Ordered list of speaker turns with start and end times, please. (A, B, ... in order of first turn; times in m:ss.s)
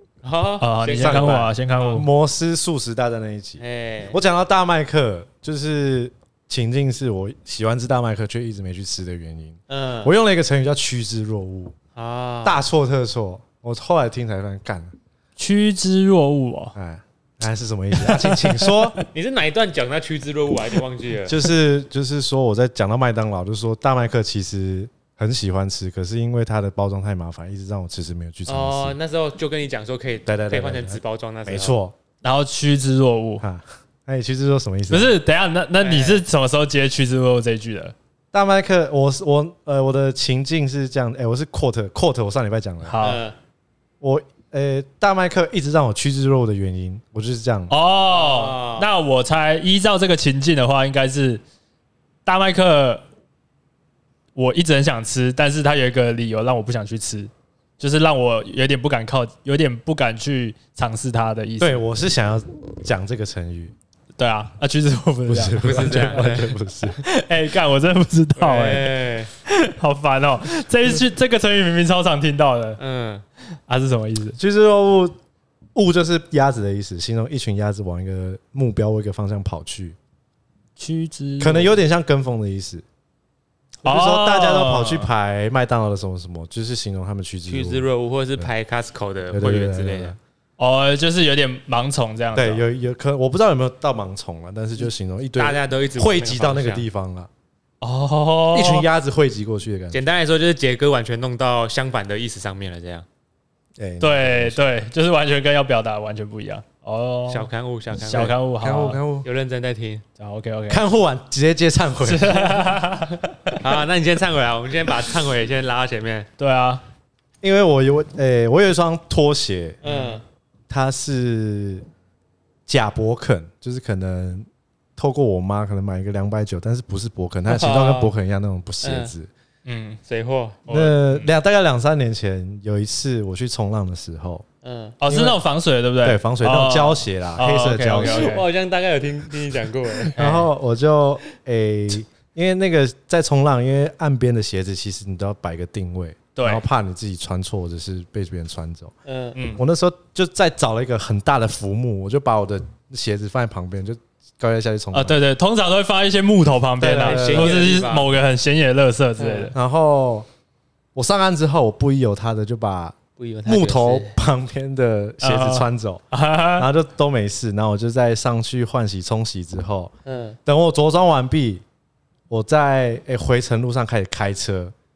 0:00.2-0:01.4 A
0:00.6-0:02.1 B
0:00.8-0:11.7 C
0:03.6-0:04.2 A
0:09.7-0:10.1 A
0:12.0-0:12.6 A
0:12.4-0:14.9 C
0:15.4-0:16.7 B
0:16.7-0:19.0 C
0:18.0-0:18.7 B
0:19.1-0:21.4 A
0:21.2-0:29.0 C
0:28.5-0:31.7 A
0:30.2-0:31.9 C
0:32.2-0:33.4 B
0:33.4-0:35.2 C
0:34.9-0:37.9 B
0:35.8-0:36.2 A
0:38.3-0:43.0 C
0:42.8-0:43.2 B
0:43.0-0:43.3 A
0:44.0-0:47.7 C
0:47.7-0:51.4 B
0:48.1-0:48.9 A
0:52.2-0:53.0 B
0:54.4-1:01.8 B
1:01.6-1:03.7 C
1:04.2-1:06.3 B
1:05.3-1:07.0 C
1:05.6-1:06.5 A
1:06.9-1:12.8 B
1:08.4-1:09.3 A
1:12.8-1:13.2 A
1:13.7-1:14.4 B
1:14.4-1:15.2 C
1:15.7-1:20.0 C
1:20.8-1:21.8 B
1:21.4-1:22.8 C
1:23.8-1:25.1 B
1:23.8-1:28.5 C
1:27.5-1:30.2 A
1:29.3-1:30.2 C
1:30.6-1:32.6 B
1:32.3-1:37.3 C
1:35.4-1:36.8 A
1:37.8-1:38.9 B
1:38.5-1:40.0 C
1:39.9-1:43.0 A
1:43.8-1:44.6 C
1:44.0-1:49.0 B
1:47.3-1:48.4 A
1:48.6-1:49.2 C
1:49.2-1:50.0 A
1:50.2-1:50.8 B
1:50.7-1:52.4 C
1:52.0-1:53.6 B
1:53.6-1:56.3 A
1:56.4-1:56.8 B
1:57.4-1:59.8 C
1:59.8-2:00.2 A
2:00.7-2:01.8 C
2:02.7-2:09.3 C
2:07.5-2:08.1 A
2:08.8-2:09.1 A
2:09.7-2:10.0 B
2:10.1-2:10.6 A
2:10.6-2:11.3 B
2:10.7-2:14.4 C
2:14.6-2:15.0 A
2:15.0-2:18.5 B
2:15.1-2:15.4 C
2:16.0-2:18.4 C
2:17.9-2:20.2 A
2:20.2-2:28.9 C
2:20.2-2:20.5 B
2:26.3-2:26.6 B
2:29.0-2:29.4 A
2:29.4-2:29.6 B
2:29.5-2:35.2 C
2:34.9-2:39.5 B
2:36.8-2:37.6 C
2:37.0-2:38.1 A
2:39.2-2:39.5 A
2:39.5-2:40.3 C
2:40.9-2:46.0 C
2:43.2-2:44.2 A
2:45.2-2:46.7 B
2:46.6-2:49.9 C
2:50.0-2:50.4 A
2:50.4-2:51.6 C
2:52.3-2:54.7 C